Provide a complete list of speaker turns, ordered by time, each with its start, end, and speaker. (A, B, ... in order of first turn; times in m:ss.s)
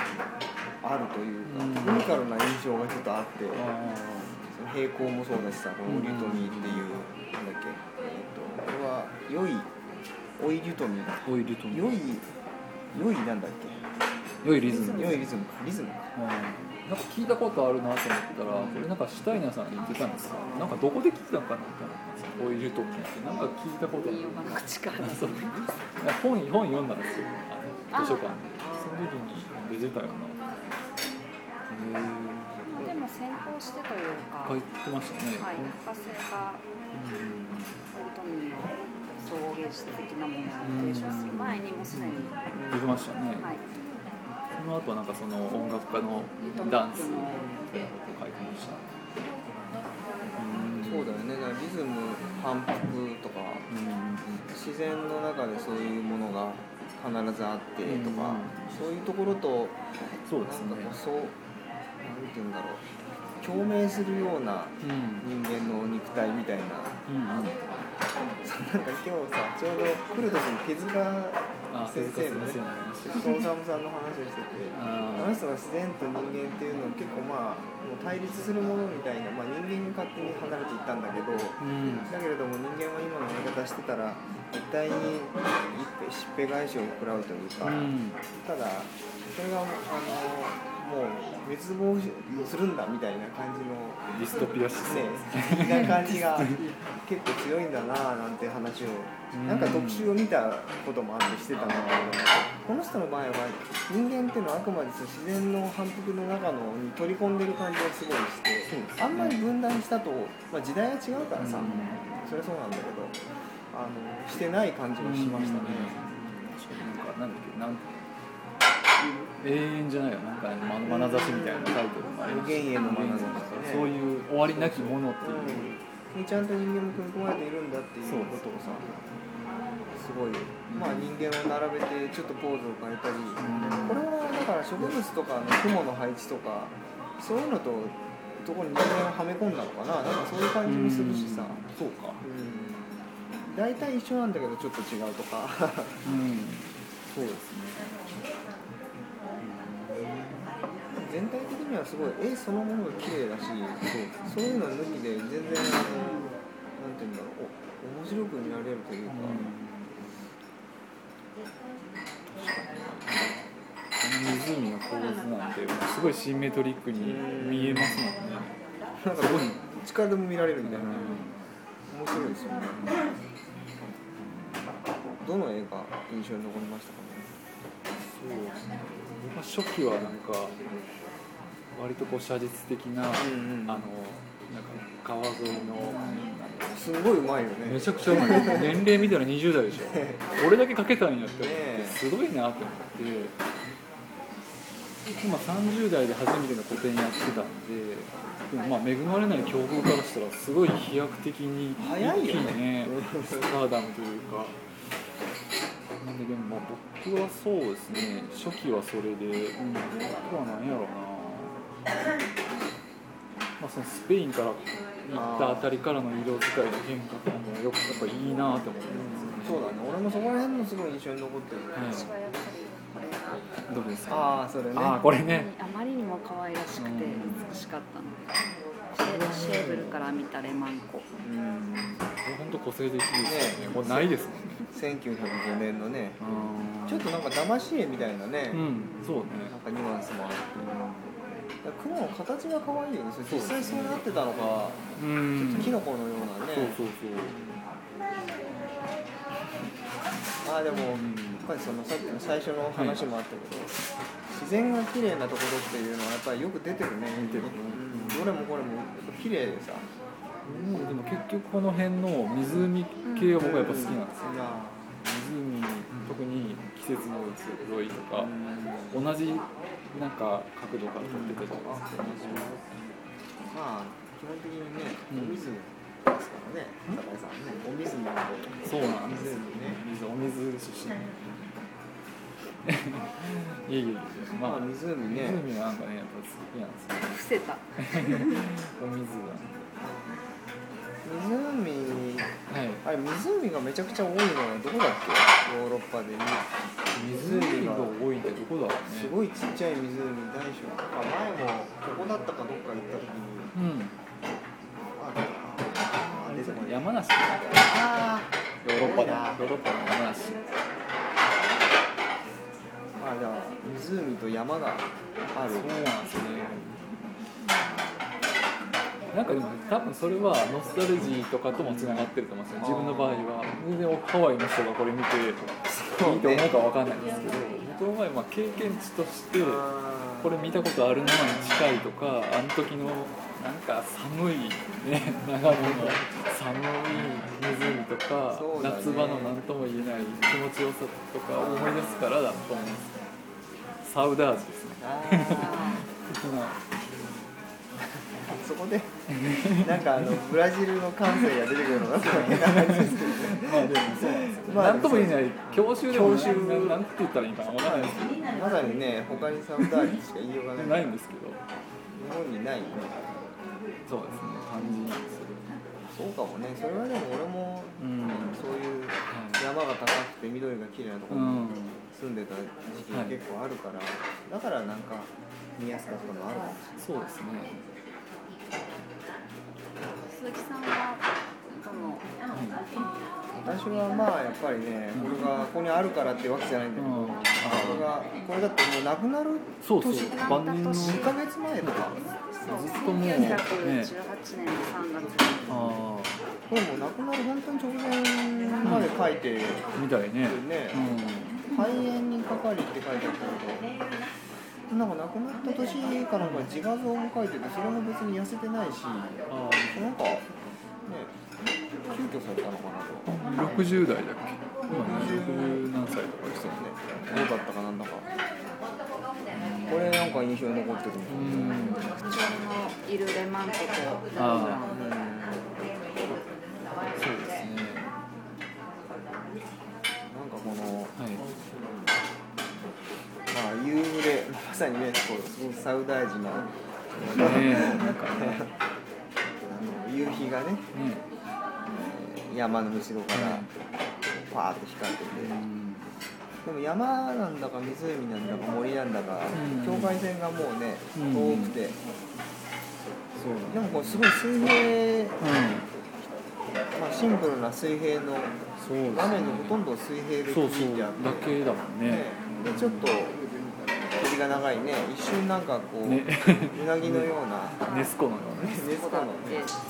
0:00.8-0:03.6 A
0:01.4-0:02.2 B
0:03.5-0:04.4 B
0:04.4-0:09.7 A
0:05.8-0:07.0 B
0:10.4-0:12.3 A
0:11.2-0:12.0 B
0:12.9-0:13.8 A
0:14.4-0:15.2 B
0:14.6-0:15.2 C
0:14.9-0:16.0 A
0:16.1-0:30.4 B
0:18.5-0:18.8 A
0:19.8-0:20.9 C
0:23.8-0:25.7 C
0:27.9-0:28.8 C
0:28.6-0:28.9 A
0:31.7-0:32.8 B
0:32.6-0:34.6 C
0:34.4-0:35.7 B
0:35.4-0:36.6 C
0:36.9-0:37.8 B
0:37.9-0:42.4 C
0:40.6-0:43.5 B
0:42.5-0:42.8 A
0:43.4-0:43.6 C
0:44.5-0:48.9 B
0:46.4-0:47.5 C
0:50.4-0:51.1 B
0:50.8-0:53.6 A
0:53.7-0:54.5 B
0:54.5-0:59.8 A
0:57.8-0:58.8 B
1:00.3-1:01.0 B
1:00.4-1:01.4 A
1:02.0-1:02.8 A
1:03.4-1:07.0 A
1:04.8-1:05.3 B
1:07.1-1:07.6 B
1:08.4-1:34.1 A
1:11.7-1:13.4 B
1:14.7-1:15.3 B
1:21.6-1:22.1 B
1:27.6-1:28.2 B
1:34.1-1:36.7 B
1:34.8-1:53.2 A
1:39.3-1:40.1 B
1:41.5-1:42.4 B
1:48.6-1:49.4 B
1:51.4-1:52.1 B
1:53.7-1:56.2 A
1:55.0-1:57.9 B
1:59.4-2:05.8 B
2:00.8-2:08.9 A
2:08.0-2:08.6 B
2:09.9-2:21.6 A
2:10.7-2:11.2 B
2:13.4-2:14.0 B
2:20.6-2:22.2 B
2:22.2-2:22.9 A
2:23.4-2:26.0 A
2:26.0-2:28.0 B
2:29.4-2:30.5 B
2:30.9-2:39.6 A
2:33.8-2:34.2 B
2:39.0-2:40.0 B
2:42.3-2:48.5 B
2:47.0-2:48.1 A
2:49.0-2:51.2 A
2:49.1-2:49.7 B
2:50.6-2:51.4 B
2:51.9-2:53.0 A
2:52.2-2:53.0 B
2:54.2-2:54.7 B
2:55.2-2:57.3 A
2:58.1-3:00.6 B
3:01.7-3:06.8 B
3:03.1-3:03.9 A
3:05.8-3:08.8 A
3:07.6-3:13.4 B
3:09.8-3:10.2 A
3:11.2-3:12.0 A
3:15.2-3:24.6 B
3:18.5-3:18.8 C
3:21.8-3:23.5 A
3:26.0-3:31.6 B
3:33.6-3:39.6 B
3:35.1-3:35.7 A
3:38.9-3:41.9 A
3:41.7-3:42.1 B
3:41.8-3:43.5 C
3:43.7-3:45.5 B
3:44.1-3:45.1 A
3:45.2-3:51.1 C
3:46.7-3:47.5 B
3:49.0-3:50.0 B
3:51.2-3:52.0 A
3:52.2-3:54.7 B
3:53.2-3:54.1 A
3:54.7-3:56.2 A
3:56.2-3:57.1 B
3:56.9-3:58.7 A
3:58.5-3:59.5 B
3:59.4-4:00.6 A
4:00.6-4:01.1 B
4:01.6-4:07.6 A
4:03.3-4:04.0 B
4:05.0-4:05.8 B
4:06.5-4:07.4 B
4:10.4-4:13.8 A
4:10.9-4:11.5 B
4:12.7-4:13.0 B
4:14.3-4:19.9 A
4:17.1-4:18.3 B
4:20.4-4:24.3 B
4:23.0-4:23.5 C
4:23.4-4:25.0 A
4:25.0-4:28.3 B
4:28.1-4:29.0 A
4:28.9-4:32.5 B
4:31.0-4:32.8 A
4:33.5-4:39.8 A
4:35.1-4:35.4 B
4:38.6-4:41.2 B
4:42.6-4:47.1 B
4:44.4-4:45.4 A
4:47.1-4:48.5 C
4:47.8-4:49.6 B
4:51.0-4:56.5 A
4:52.5-4:52.8 B
4:56.9-4:59.1 B
4:57.0-4:58.0 A
4:58.8-5:03.5 A
5:03.5-5:03.9 B
5:04.9-5:06.9 A
5:06.1-5:07.6 B
5:07.5-5:09.4 A
5:08.6-5:10.4 B
5:13.0-5:15.9 A
5:15.5-5:17.2 B
5:19.1-5:42.9 B
5:21.6-5:23.4 A
5:25.6-5:26.7 A
5:29.3-5:31.8 A
5:35.5-5:36.1 A
5:38.3-5:40.3 A
5:41.3-5:42.1 A
5:43.8-5:46.6 B
5:44.8-5:45.8 A
5:45.3-5:45.8 C
5:46.9-5:47.3 A
5:48.2-5:48.9 A
5:49.1-5:50.3 B
5:49.6-5:56.8 A
5:51.1-5:58.3 B
5:57.4-6:00.9 A
5:59.1-6:00.0 B
6:00.6-6:01.4 B
6:01.9-6:03.2 A
6:03.9-6:05.5 B
6:05.9-6:16.8 A
6:07.8-6:08.4 B
6:09.1-6:09.4 B
6:11.1-6:11.8 B
6:12.9-6:13.2 B
6:16.8-6:17.6 B
6:20.0-6:22.1 C
6:22.3-6:22.6 B
6:23.4-6:32.1 A
6:26.8-6:27.9 B
6:29.6-6:33.9 B
6:29.9-6:31.2 C
6:32.4-6:35.7 C
6:35.5-6:36.2 B
6:36.5-6:39.7 A
6:38.6-6:38.9 B
6:39.7-6:41.5 B
6:40.2-6:40.9 A
6:41.4-6:43.8 A
6:44.7-6:50.3 A
6:46.2-6:46.5 B
6:49.3-6:49.9 B
6:50.8-6:51.1 A
6:51.8-6:53.1 A
6:53.1-6:57.3 B
6:54.7-6:58.1 A
6:59.3-7:00.2 B
6:59.7-7:01.9 A
7:01.1-7:01.9 B
7:01.7-7:04.8 C
7:04.1-7:04.6 B
7:04.7-7:05.6 A
7:06.9-7:07.9 B
7:10.1-7:11.0 A
7:11.0-7:11.2 B
7:11.5-7:12.0 A
7:13.3-7:18.5 A
7:17.0-7:18.5 B
7:19.4-7:20.7 A
7:20.7-7:21.0 B
7:21.7-7:23.5 A
7:23.1-7:23.5 B
7:24.1-7:25.4 A
7:25.1-7:25.9 B
7:26.4-7:31.8 A
7:29.3-7:30.0 B
7:30.9-7:31.6 B
7:33.2-7:34.0 B
7:33.5-7:35.3 A
7:35.2-7:35.7 B
7:36.7-7:43.2 A
7:38.6-7:39.6 B
7:40.3-7:42.9 B
7:43.9-7:47.6 A
7:45.8-7:48.7 B
7:47.6-7:48.0 C
7:48.4-7:49.5 A
7:48.6-7:49.6 C